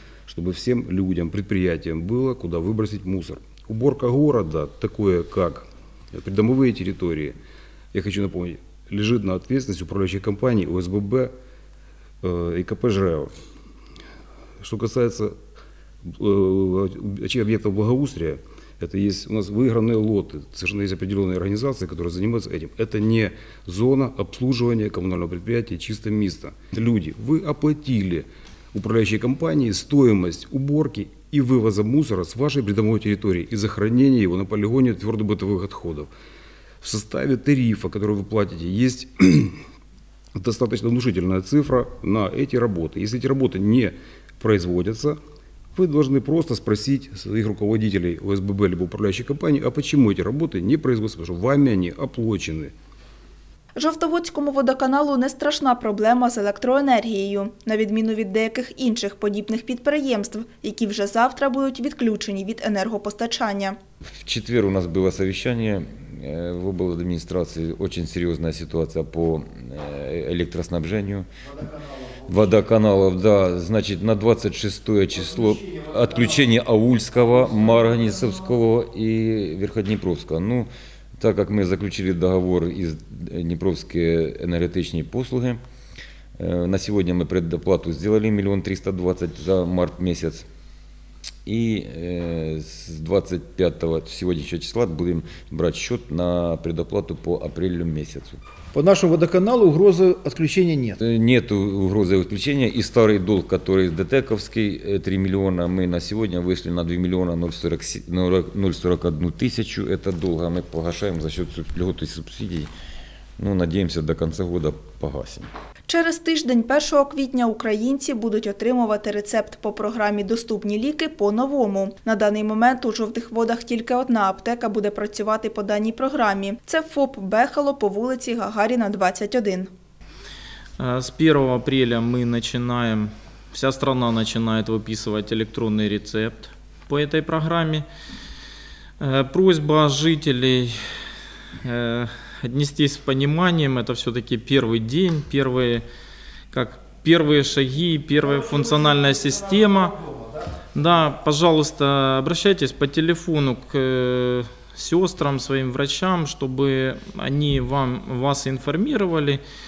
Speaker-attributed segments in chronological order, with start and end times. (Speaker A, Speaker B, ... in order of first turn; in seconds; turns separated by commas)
Speaker A: 0.3-7.4, Speaker A: 7.9-11.3, Speaker A: 12.2-13.3, Speaker A: 14.6-15.4, Speaker A: 16.1-36.1, Speaker A: 36.8-39.6, Speaker A: 40.4-45.2, Speaker A: 45.8-52.7, Speaker B: 53.8-63.8, Speaker C: 64.1-71.3, Speaker C: 72.3-85.6, Speaker C: 86.4-90.5, Speaker C: 91.5-98.4, Speaker D: 98.7-101.0, Speaker C: 101.0-112.7, Speaker C: 113.4-115.5, Speaker B: 115.9-129.7, Speaker E: 130.8-137.8, Speaker E: 139.0-141.1, Speaker E: 141.6-145.8, Speaker E: 146.5-150.0, Speaker E: 150.7-159.4